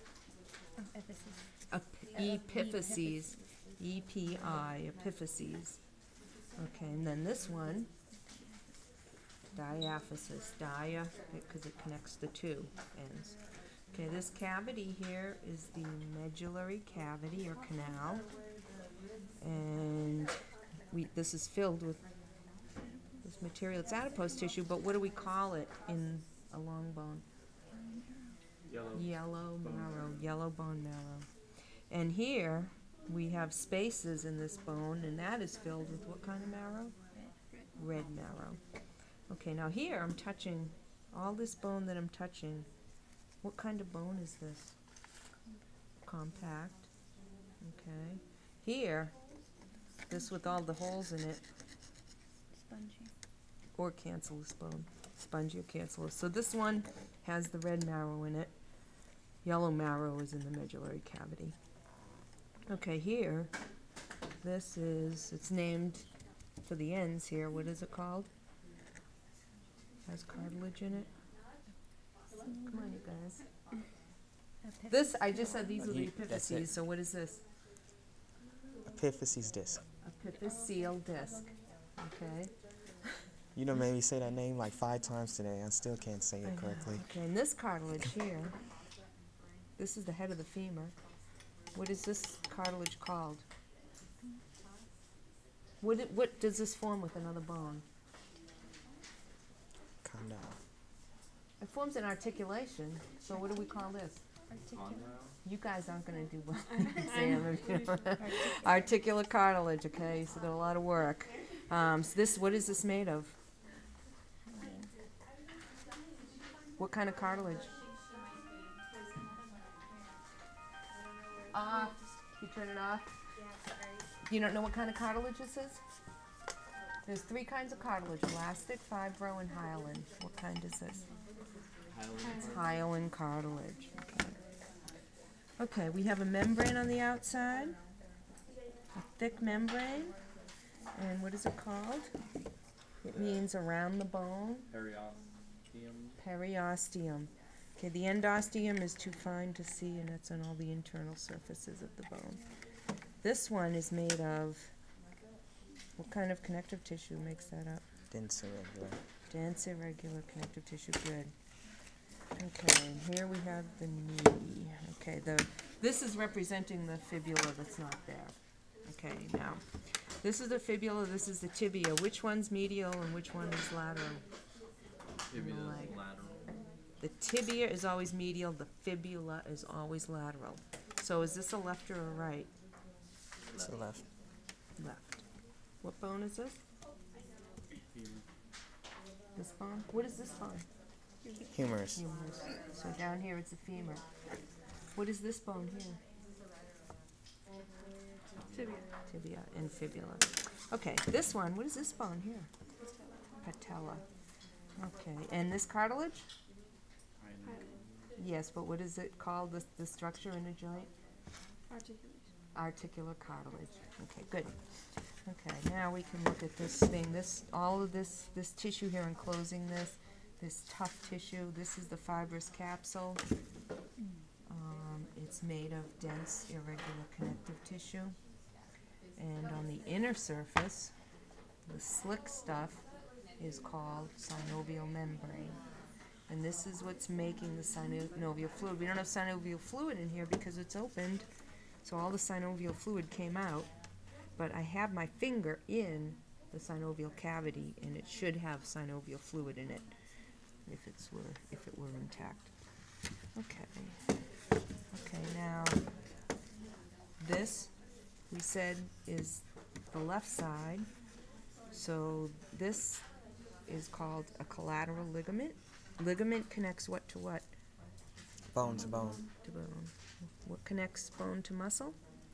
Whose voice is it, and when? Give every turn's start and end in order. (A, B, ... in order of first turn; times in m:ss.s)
0:00.8-0:01.5 A
0:01.7-0:05.8 B
0:02.2-0:03.5 A
0:06.6-0:07.9 B
0:08.3-0:08.6 A
0:09.5-0:18.2 B
0:19.4-0:22.0 B
0:23.2-0:27.2 B
0:27.8-0:28.3 A
0:28.6-0:30.3 C
0:28.9-0:31.3 B
0:31.9-0:37.0 B
0:37.1-0:37.7 A
0:37.8-0:38.6 B
0:39.3-0:42.7 B
0:43.4-0:44.8 B
0:46.0-0:46.9 B
0:47.6-0:49.2 B
0:50.1-0:51.4 B
0:52.5-0:53.1 A
0:53.7-0:58.5 B
0:59.4-1:01.6 B
1:02.7-1:03.5 B
1:04.4-1:08.3 B
1:10.1-1:11.1 B
1:12.4-1:12.9 A
1:12.6-1:13.4 B
1:14.7-1:15.6 A
1:14.9-1:17.4 B
1:15.8-1:16.7 D
1:18.9-1:19.8 D
1:20.0-1:22.5 B
1:23.6-1:27.0 D
1:26.4-1:28.6 B
1:29.8-1:31.0 B
1:31.7-1:33.4 B
1:35.8-1:37.8 B
1:40.0-1:40.6 D
1:41.6-1:44.2 B
1:44.5-1:45.1 A
1:44.7-1:45.4 C
1:45.4-1:53.3 B
1:46.8-1:48.9 A
1:54.5-1:54.9 A
1:56.8-1:57.7 B
2:01.5-2:03.1 B
2:04.3-2:05.8 B
2:07.1-2:11.1 B
2:11.9-2:12.7 C
2:12.2-2:12.6 A
2:12.4-2:14.4 B
2:15.6-2:17.8 B
2:18.9-2:20.2 B
2:20.9-2:22.1 B
2:23.0-2:24.7 B
2:23.1-2:23.4 C
2:24.7-2:26.2 C
2:26.2-2:32.4 B
2:33.2-2:34.7 B
2:36.0-2:37.8 B
2:38.1-2:39.0 D
2:39.3-2:41.3 B
2:42.3-2:54.2 B
2:55.3-2:56.5 C
2:55.3-2:56.0 B
2:57.0-3:02.5 B
3:03.5-3:03.8 C
3:03.6-3:04.0 D
3:04.8-3:05.2 B
3:05.8-3:06.6 B
3:07.9-3:08.2 C
3:09.3-3:10.7 B
3:11.5-3:12.1 D
3:12.0-3:14.0 B
3:14.9-3:16.0 B
3:18.5-3:18.9 A
3:19.1-3:22.5 B
3:23.4-3:24.0 B
3:24.8-3:26.3 B
3:27.2-3:28.1 C
3:27.4-3:27.8 A
3:28.2-3:30.9 B
3:31.7-3:32.3 A
3:32.6-3:43.2 B
3:44.5-3:48.2 B
3:49.2-3:50.9 B
3:51.7-3:55.6 B
3:56.3-4:01.2 B
4:01.8-4:03.7 B
4:04.3-4:09.9 B
4:10.6-4:12.5 B
4:13.3-4:14.1 B
4:14.9-4:15.8 B
4:17.2-4:17.7 B
4:18.3-4:20.9 B
4:21.7-4:23.1 B
4:23.6-4:27.5 B
4:28.5-4:29.2 D
4:29.4-4:31.9 B